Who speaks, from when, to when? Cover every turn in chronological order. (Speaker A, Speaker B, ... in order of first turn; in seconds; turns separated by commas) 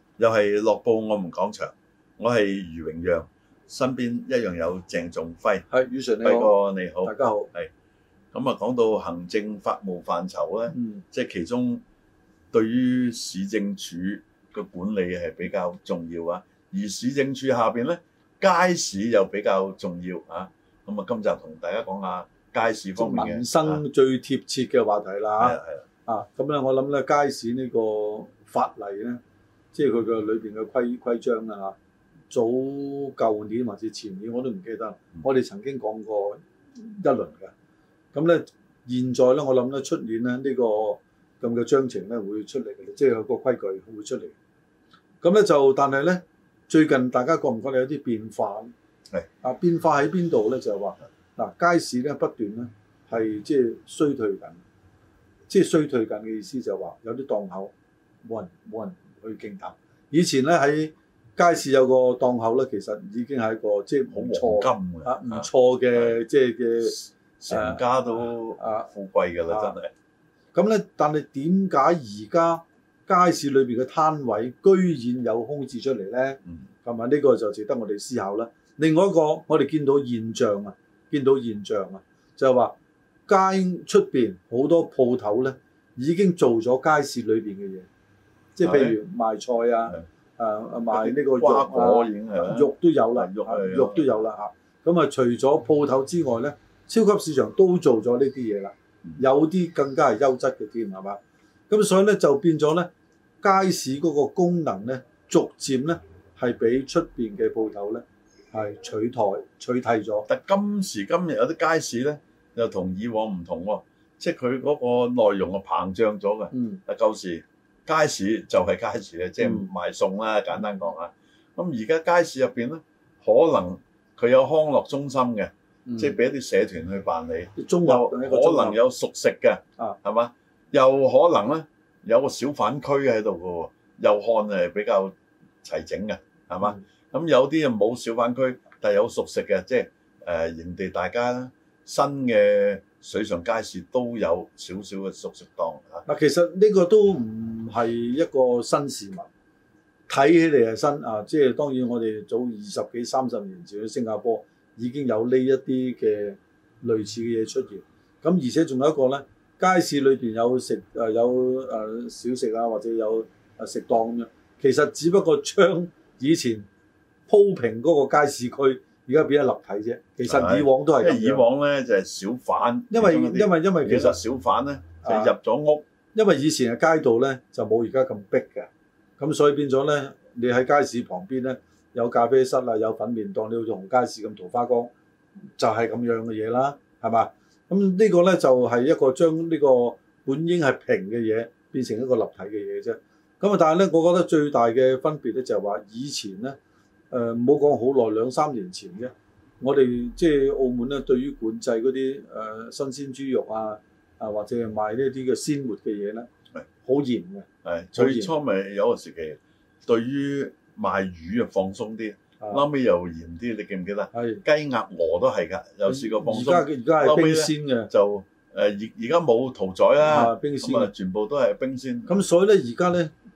Speaker A: 0.2-5.6, Speaker B: 5.7-7.5, Speaker A: 6.2-7.7, Speaker A: 8.3-11.8, Speaker B: 10.7-11.0, Speaker A: 12.5-23.8, Speaker B: 23.0-29.2, Speaker A: 25.4-25.8, Speaker B: 29.7-31.7, Speaker B: 32.3-37.5, Speaker B: 38.1-44.3, Speaker B: 45.2-48.7, Speaker B: 49.4-54.6, Speaker B: 55.5-57.7, Speaker B: 58.2-67.0, Speaker A: 64.1-66.2, Speaker A: 66.8-69.9, Speaker B: 67.5-68.9, Speaker B: 69.5-69.7, Speaker B: 70.5-82.7, Speaker B: 83.3-87.9, Speaker B: 88.5-102.9, Speaker A: 88.6-89.0, Speaker A: 90.9-94.1, Speaker B: 103.4-110.3, Speaker A: 110.3-146.0, Speaker B: 116.5-116.8, Speaker B: 119.4-119.7, Speaker B: 125.9-126.1, Speaker B: 127.6-128.8, Speaker B: 146.1-149.2, Speaker B: 150.1-166.7, Speaker B: 167.3-171.4, Speaker A: 170.2-175.8, Speaker B: 172.9-174.2, Speaker B: 175.0-175.3, Speaker B: 176.1-184.9, Speaker B: 185.6-196.6, Speaker B: 197.1-206.3, Speaker B: 206.8-208.3, Speaker A: 207.6-222.1, Speaker B: 214.1-214.4, Speaker B: 215.9-217.9, Speaker B: 220.0-220.9, Speaker B: 222.1-223.1